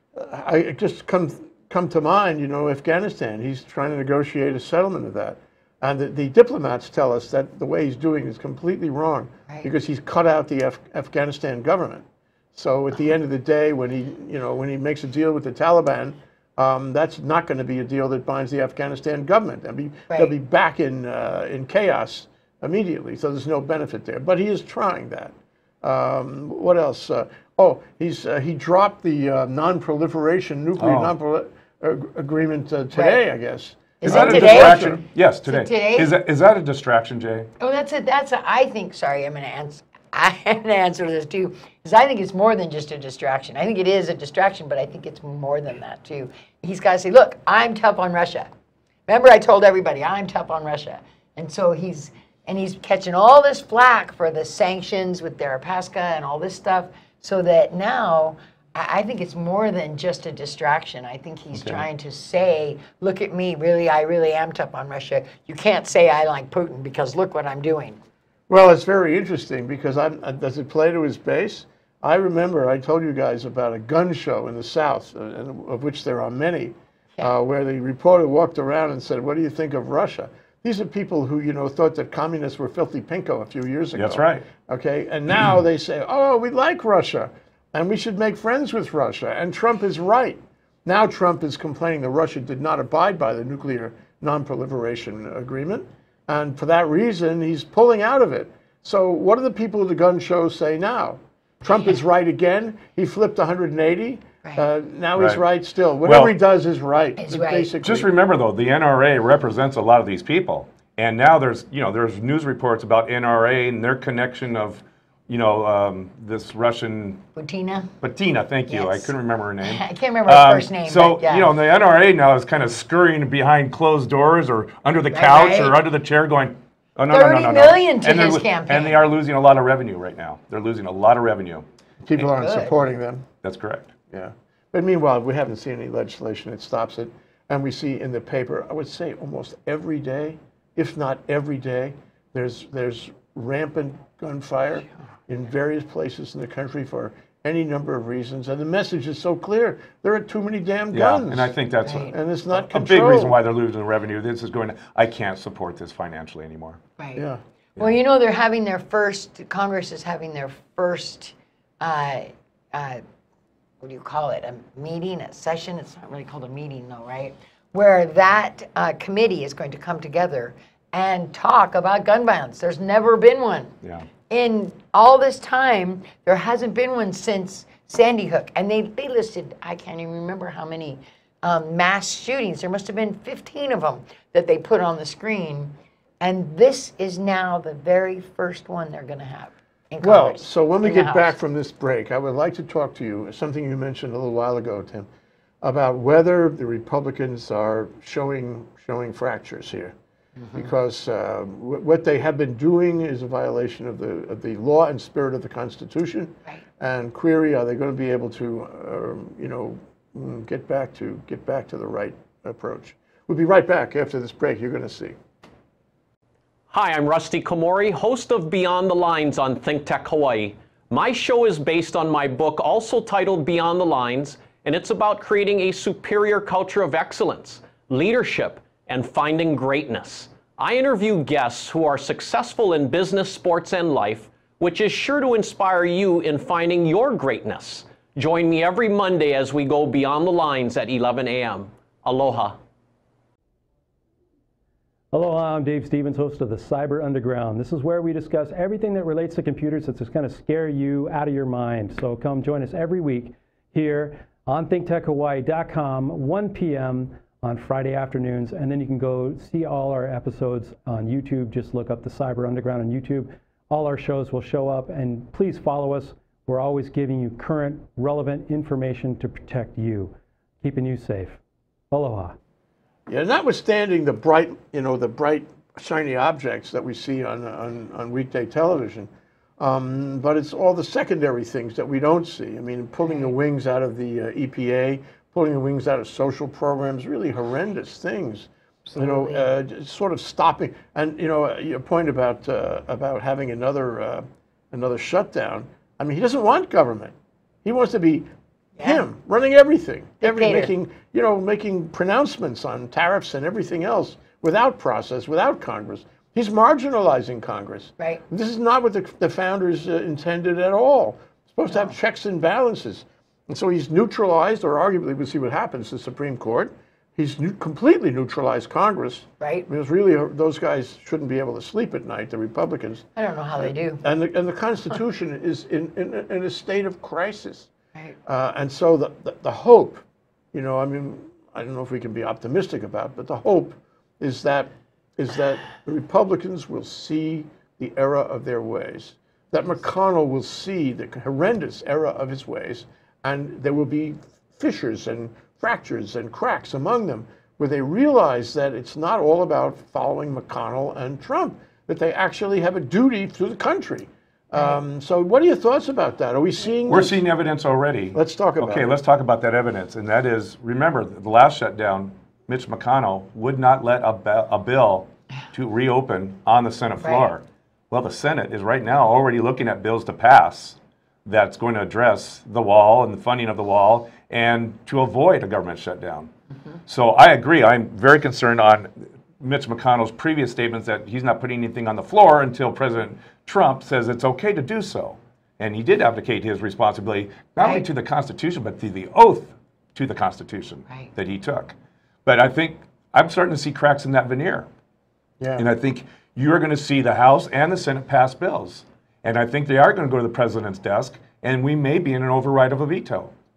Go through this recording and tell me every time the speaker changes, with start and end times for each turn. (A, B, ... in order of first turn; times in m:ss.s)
0:00.1-0:35.0 A
0:30.8-0:31.1 B
0:32.9-0:33.2 C
0:34.0-0:36.1 C
0:34.0-0:37.5 B
0:37.6-0:48.5 C
0:49.1-1:08.0 C
1:01.6-1:01.8 B
1:08.5-1:48.1 A
1:24.0-1:24.4 B
1:45.2-1:45.4 B
1:46.0-1:46.3 B
1:47.2-1:47.7 C
1:47.8-1:57.2 B
1:57.4-1:57.9 C
1:58.0-2:11.6 B
1:58.7-2:01.5 C
2:05.1-2:05.8 C
2:07.1-2:09.0 C
2:12.0-2:13.3 A
2:12.2-2:12.8 C
2:13.4-2:13.9 B
2:14.1-2:33.4 A
2:30.9-2:36.8 B
2:31.8-2:32.1 C
2:37.0-2:37.2 C
2:37.2-2:37.4 A
2:37.8-2:43.0 C
2:43.8-2:53.7 C
2:54.3-3:11.4 C
3:10.0-3:15.1 A
3:15.6-3:19.9 A
3:20.4-3:20.7 C
3:20.5-3:35.2 A
3:36.7-4:02.6 D
4:05.1-4:31.4 E
4:31.9-4:32.4 E
4:33.1-4:58.3 A
4:48.9-4:49.5 C
4:58.8-5:23.1 A
5:00.2-5:00.7 C
5:19.4-5:19.7 C
5:23.2-5:24.0 C
5:23.6-5:27.7 A
5:28.3-5:57.3 A
5:56.9-6:16.3 B
5:58.1-5:58.9 A
6:07.0-6:07.3 C
6:16.9-6:31.7 B
6:27.6-6:27.9 C
6:32.2-6:34.7 B
6:35.4-6:35.6 A
6:35.6-6:43.3 B